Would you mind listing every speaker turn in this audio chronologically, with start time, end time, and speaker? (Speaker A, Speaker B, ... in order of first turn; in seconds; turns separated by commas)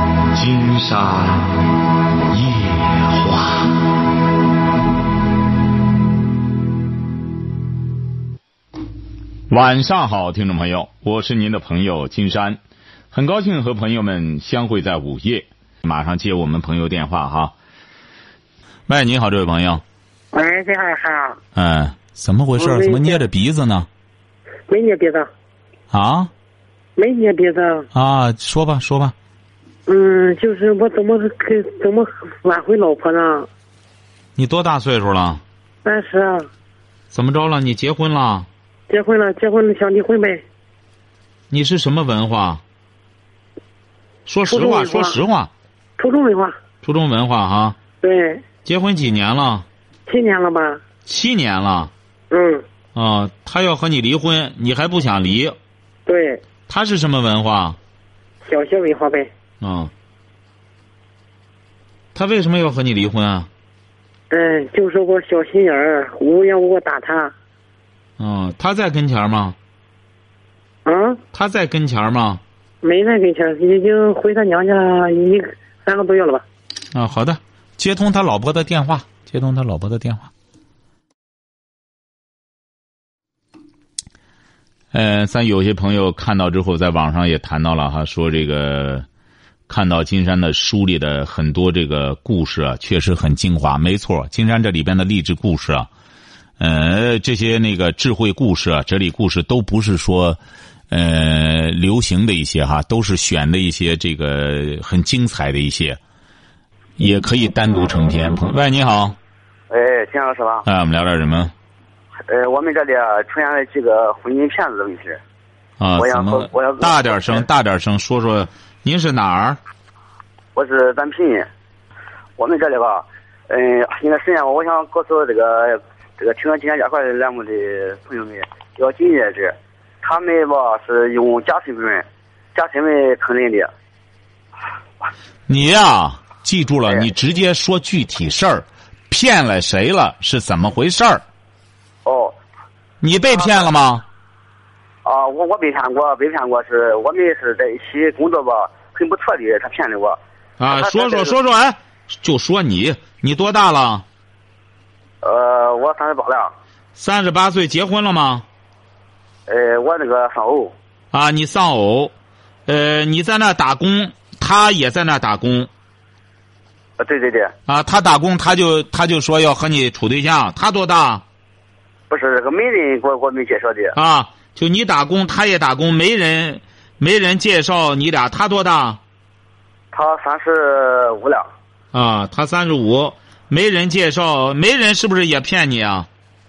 Speaker A: 0.3-1.4, Speaker A: 2.4-3.6, Speaker A: 9.5-12.6, Speaker A: 13.1-17.5, Speaker A: 18.9-19.8, Speaker B: 20.3-21.4, Speaker A: 21.6-23.9, Speaker B: 22.6-23.2, Speaker B: 24.7-25.3, Speaker A: 25.9-26.3, Speaker B: 27.0-27.9, Speaker A: 27.9-29.1, Speaker B: 29.9-33.5, Speaker A: 34.4-35.4, Speaker B: 35.8-36.5, Speaker A: 37.1-38.5, Speaker B: 38.9-40.4, Speaker A: 41.5-42.6, Speaker A: 44.2-45.5, Speaker B: 44.5-45.2, Speaker B: 46.0-46.5, Speaker A: 46.8-47.8, Speaker B: 48.0-48.4, Speaker A: 48.6-49.6, Speaker B: 50.1-50.8, Speaker A: 51.0-51.9, Speaker B: 52.3-52.6, Speaker A: 53.0-55.5, Speaker B: 56.0-56.4, Speaker A: 56.7-57.8, Speaker B: 58.4-59.3, Speaker A: 59.6-59.9, Speaker A: 62.1-63.5, Speaker B: 64.3-67.3, Speaker A: 68.2-69.5, Speaker B: 70.8-71.2, Speaker A: 71.3-72.4, Speaker B: 72.8-76.4, Speaker A: 76.9-80.3, Speaker A: 84.9-89.0, Speaker A: 89.7-95.9, Speaker A: 96.6-100.4, Speaker A: 100.9-106.0, Speaker A: 107.0-109.2, Speaker C: 109.7-110.6, Speaker A: 110.7-111.5, Speaker C: 112.3-115.2, Speaker A: 115.8-119.6, Speaker C: 116.0-117.4, Speaker C: 120.5-121.5, Speaker C: 122.4-133.7, Speaker A: 135.5-141.2, Speaker C: 142.0-142.4, Speaker A: 143.0-144.0, Speaker C: 143.3-143.7, Speaker C: 145.0-150.2, Speaker A: 150.6-154.0, Speaker C: 150.7-151.3, Speaker C: 155.2-156.5, Speaker A: 156.9-158.4, Speaker C: 159.5-160.7, Speaker A: 161.1-162.1, Speaker A: 162.7-165.7, Speaker C: 167.0-167.5, Speaker A: 167.7-171.2, Speaker C: 172.1-173.9, Speaker A: 173.9-179.0, Speaker C: 179.9-181.5, Speaker A: 181.9-186.1